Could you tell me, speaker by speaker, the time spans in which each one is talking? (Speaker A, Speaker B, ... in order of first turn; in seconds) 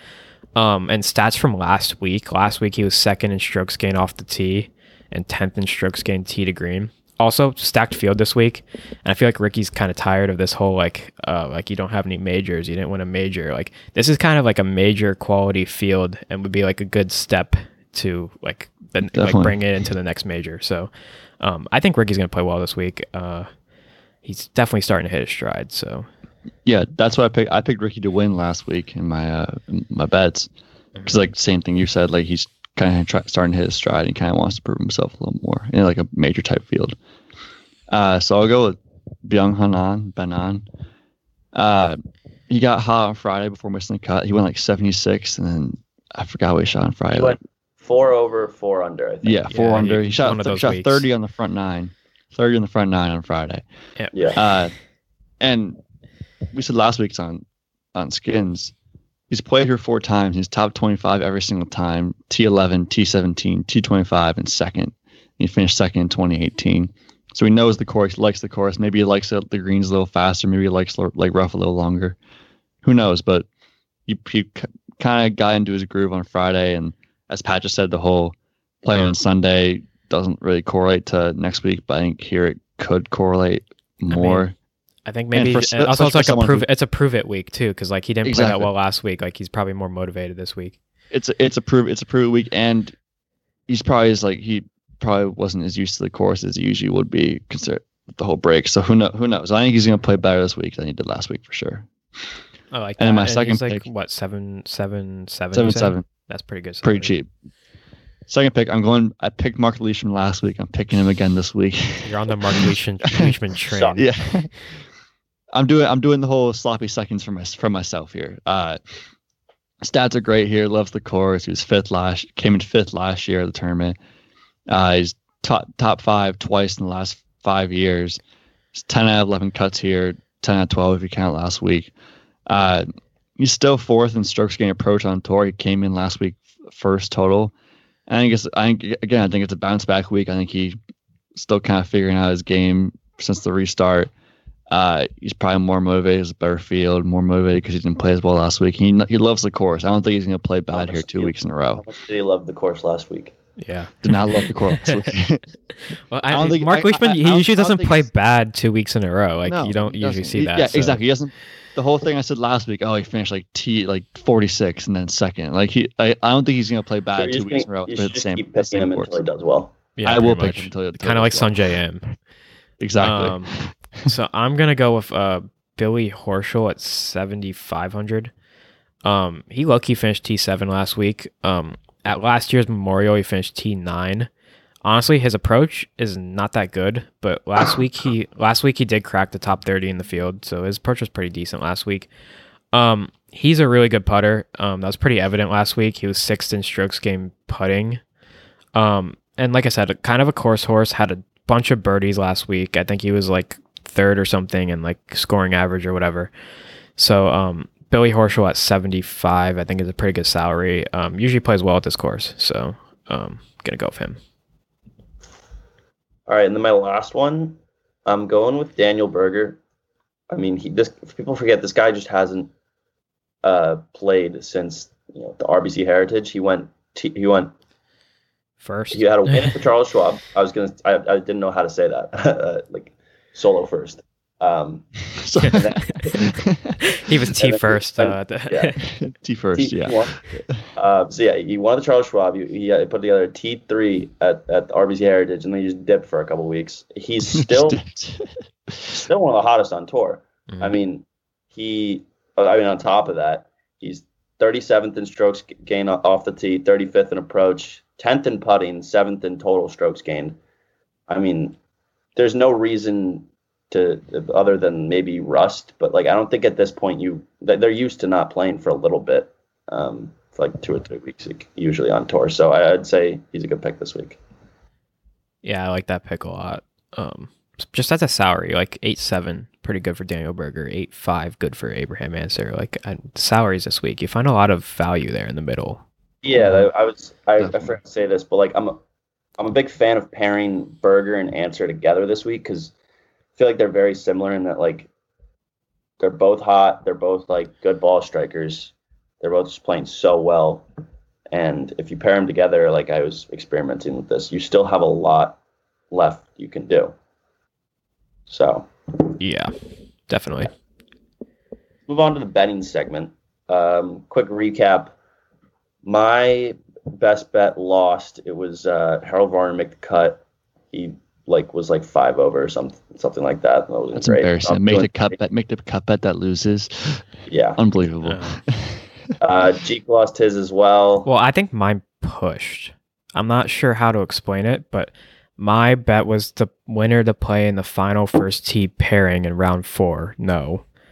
Speaker A: 0.6-23.5, 24.2-26.1, 49.5-51.1, 54.0-54.3, 84.1-84.4, 85.0-90.8, 102.7-107.1, 112.0-114.1, 153.6-155.1, 155.7-161.0, 170.0-172.1, 173.0-178.3, 179.0-184.3, 184.8-192.1, 192.7-198.0, 198.7-206.3, 207.0-214.2, 228.6-229.6, 235.4-236.3, 236.9-238.8, 250.5-250.8, 275.4-285.8, 309.2-309.5, 310.1-310.5, 328.0-328.4, 331.1-340.6
Speaker B: 19.0-19.6, 26.6-30.5, 31.0-36.9, 37.9-40.6, 41.5-47.4, 49.2-53.6, 54.3-54.7, 55.4-55.8, 56.5-58.7, 59.3-72.2, 72.8-73.5, 74.1-84.5, 85.3-86.7, 88.2-88.7, 91.1-92.9, 93.7-101.9, 103.0-103.8, 105.5-106.1, 106.8-107.3, 108.3-113.4, 113.9-114.5, 115.5-118.8, 119.8-124.0, 124.7-128.2, 128.7-131.9, 132.5-132.9, 133.4-137.5, 138.1-140.8, 141.3-144.1, 144.7-151.8, 154.0-155.4, 156.3-158.1, 159.4-169.2, 170.0-171.6, 172.8-174.1, 235.2-236.8, 238.8-240.6, 247.3-248.9, 287.4-287.7, 323.9-327.0, 327.6-328.8
Speaker C: 47.1-49.5, 54.1-54.4, 113.7-114.0, 150.7-153.3, 167.2-169.7, 216.3-219.6, 220.3-222.5, 223.4-227.5, 228.9-236.3, 237.4-238.8, 239.5-247.8, 248.9-260.4, 261.1-261.6, 262.1-274.2, 286.2-288.8, 289.4-292.7, 293.4-294.9, 296.0-300.6, 301.3-305.4, 305.9-306.9, 308.3-309.2, 311.9-314.9, 315.8-325.2, 327.3-327.6, 329.2-331.1